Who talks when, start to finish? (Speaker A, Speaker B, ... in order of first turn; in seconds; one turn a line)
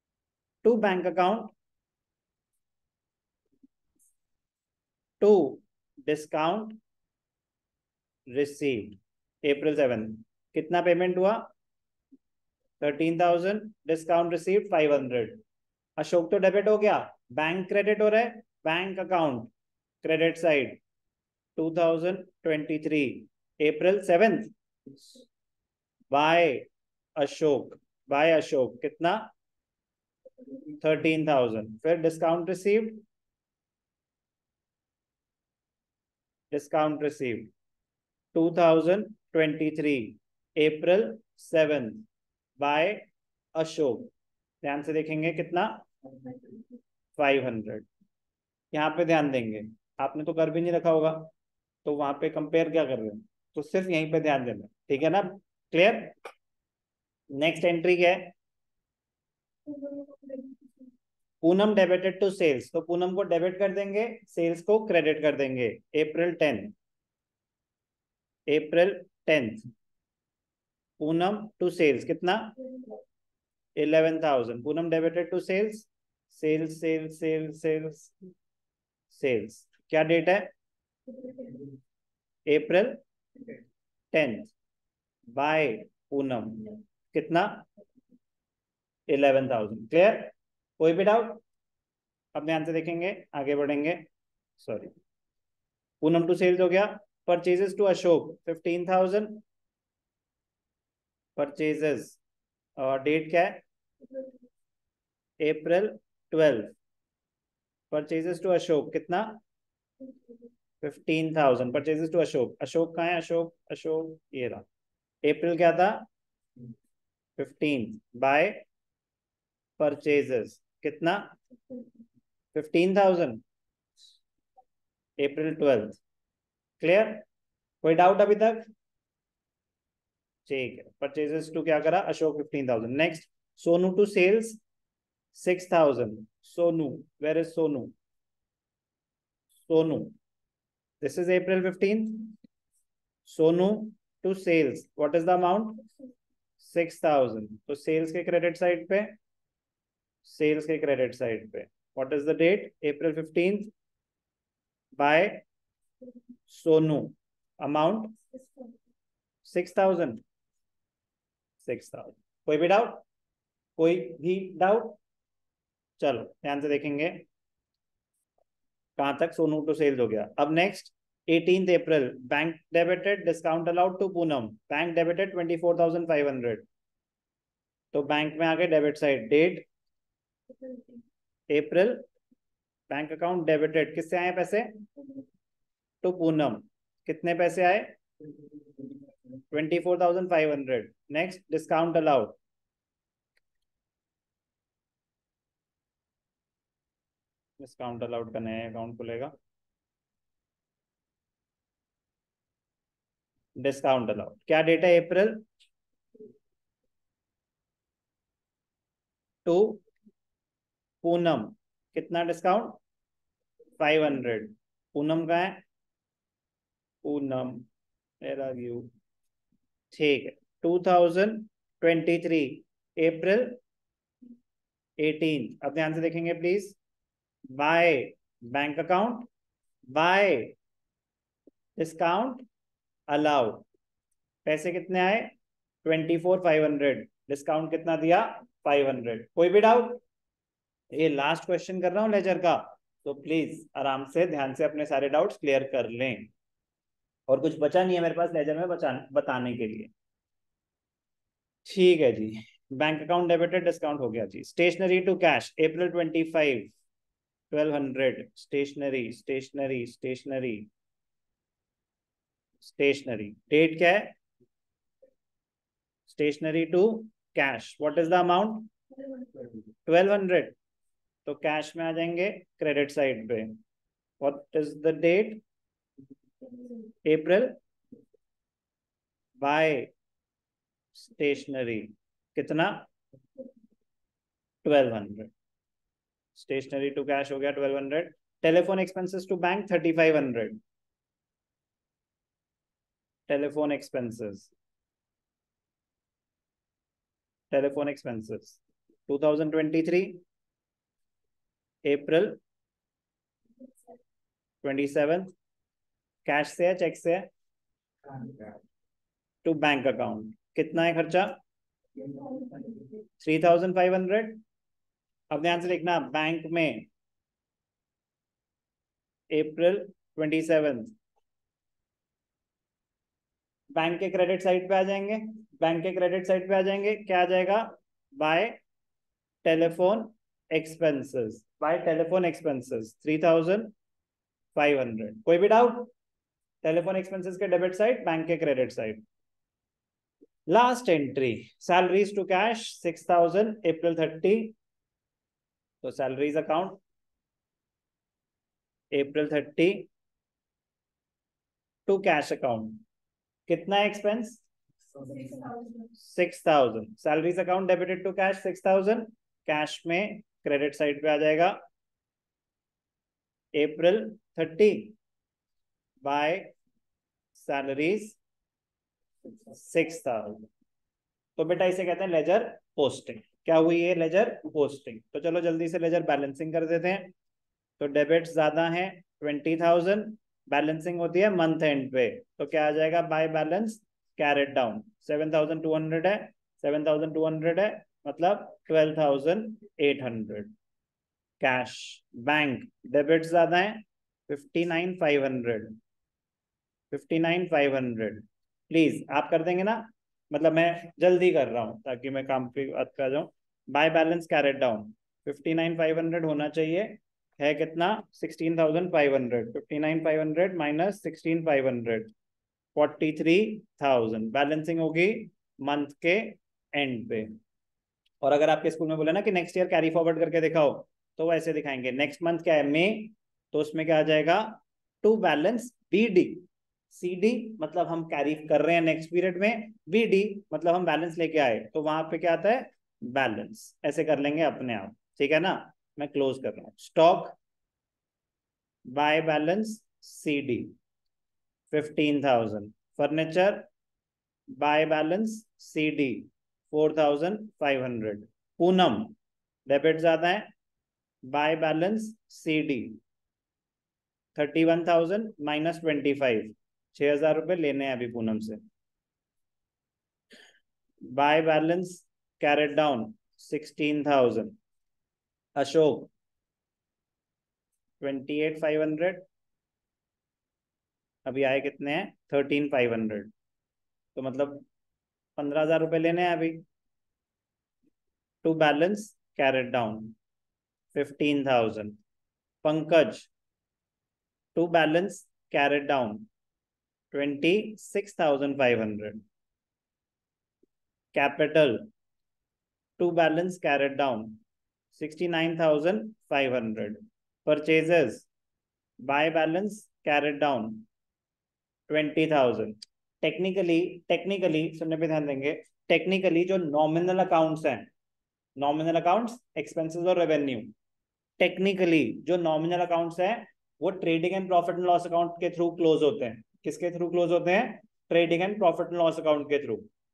Speaker A: 0.6-1.5
Speaker A: 5.2-6.8
Speaker A: 8.3-11.5
Speaker A: 12.8-15.4
Speaker A: 16.0-19.5
Speaker A: 20.0-20.8
Speaker A: 21.6-24.5
Speaker A: 26.1-29.3
Speaker A: 30.8-33.0
Speaker A: 36.5-37.5
Speaker A: 38.3-42.0
Speaker A: 42.6-44.1
Speaker A: 44.6-45.8
Speaker A: 47.2-47.9
Speaker A: 48.7-51.3
Speaker A: 51.8-56.1
Speaker A: 57.4-58.3
Speaker A: 61.4-66.7
Speaker A: 68.5-69.7
Speaker A: 71.0-72.5
Speaker A: 73.8-78.1
Speaker A: 79.1-80.5
Speaker A: 82.5-83.0
Speaker A: 84.1-84.5
Speaker A: 85.3-87.7
Speaker A: 89.1-91.4
Speaker A: 92.3-94.9
Speaker A: 96.0-99.4
Speaker A: 101.3-102.2
Speaker A: 102.8-103.6
Speaker A: 105.4-106.7
Speaker A: 107.9-109.4
Speaker A: 110.8-114.6
Speaker A: 115.2-116.0
Speaker A: 117.4-118.6
Speaker A: 119.8-121.3
Speaker A: 122.5-123.4
Speaker A: 125.2-126.0
Speaker A: 126.8-127.2
Speaker A: 127.8-128.7
Speaker A: 130.5-134.6
Speaker A: 135.3-137.9
Speaker A: 139.7-140.1
Speaker A: 141.0-142.3
Speaker A: 143.2-145.8
Speaker A: 146.6-149.2
Speaker A: 150.2-153.7
Speaker A: 154.9-155.4
Speaker A: 156.5-158.2
Speaker A: 159.4-160.2
Speaker A: 161.6-163.0
Speaker A: 163.8-165.0
Speaker A: 166.0-167.3
Speaker A: 169.0-176.6
Speaker A: 177.9-179.7
Speaker A: 181.5-182.0
Speaker A: 182.9-184.7
Speaker A: 186.0-187.9
Speaker A: 189.5-192.4
Speaker A: 197.6-199.3
Speaker A: 203.6-205.4
Speaker A: 209.4-209.8
Speaker A: 211.0-212.8
Speaker A: 213.8-215.6
Speaker A: 217.0-217.7
Speaker A: 218.2-218.9
Speaker A: 219.9-223.6
Speaker A: 225.0-226.8
Speaker A: 227.5-229.3
Speaker A: 229.9-230.5
Speaker A: 231.8-232.4
Speaker A: 233.1-233.7
Speaker A: 234.4-235.3
Speaker A: 235.8-240.0
Speaker A: 240.9-246.3
Speaker A: 247.3-249.9
Speaker A: 251.7-256.7
Speaker A: 257.5-260.7
Speaker A: 262.6-264.1
Speaker A: 266.1-268.7
Speaker A: 269.9-270.6
Speaker A: 271.2-273.6
Speaker A: 274.2-275.4
Speaker A: 277.0-277.5
Speaker A: 279.4-279.9
Speaker A: 280.9-282.9
Speaker A: 284.6-285.3
Speaker A: 286.3-290.6
Speaker A: 293.3-294.5
Speaker A: 297.5-300.2
Speaker A: 301.8-302.4
Speaker A: 304.6-305.3
Speaker A: 306.2-307.3
Speaker A: 309.4-311.4
Speaker A: 313.2-314.4
Speaker A: 315.3-316.9
Speaker A: 319.3-320.9
Speaker A: 323.7-328.6
Speaker A: 329.4-333.7
Speaker A: 334.5-335.9
Speaker A: 336.6-339.0
Speaker A: 340.5-344.5
Speaker A: 345.8-346.8
Speaker A: 348.9-349.9
Speaker A: 351.9-352.8
Speaker A: 353.5-354.4
Speaker A: 355.1-361.6
Speaker A: 363.5-364.9
Speaker A: 366.0-366.5
Speaker A: 367.3-368.2
Speaker A: 369.4-370.4
Speaker A: 371.4-377.1
Speaker A: 377.8-390.5
Speaker A: 391.4-395.8
Speaker A: 396.9-412.1
Speaker A: 412.7-417.3
Speaker A: 418.2-437.4
Speaker A: 438.9-440.7
Speaker A: 441.7-443.7
Speaker A: 444.5-449.1
Speaker A: 449.7-450.5
Speaker A: 451.2-453.0
Speaker A: 454.3-458.6
Speaker A: 461.1-464.6
Speaker A: 465.6-466.1
Speaker A: 468.0-469.2
Speaker A: 471.2-473.3
Speaker A: 474.1-474.6
Speaker A: 475.4-476.6
Speaker A: 478.4-480.1
Speaker A: 480.9-482.0
Speaker A: 482.6-483.3
Speaker A: 484.5-486.3
Speaker A: 487.1-489.2
Speaker A: 491.1-491.8
Speaker A: 493.0-494.4
Speaker A: 494.9-498.3
Speaker A: 499.0-500.9
Speaker A: 501.9-507.9
Speaker A: 508.6-510.7
Speaker A: 511.4-519.8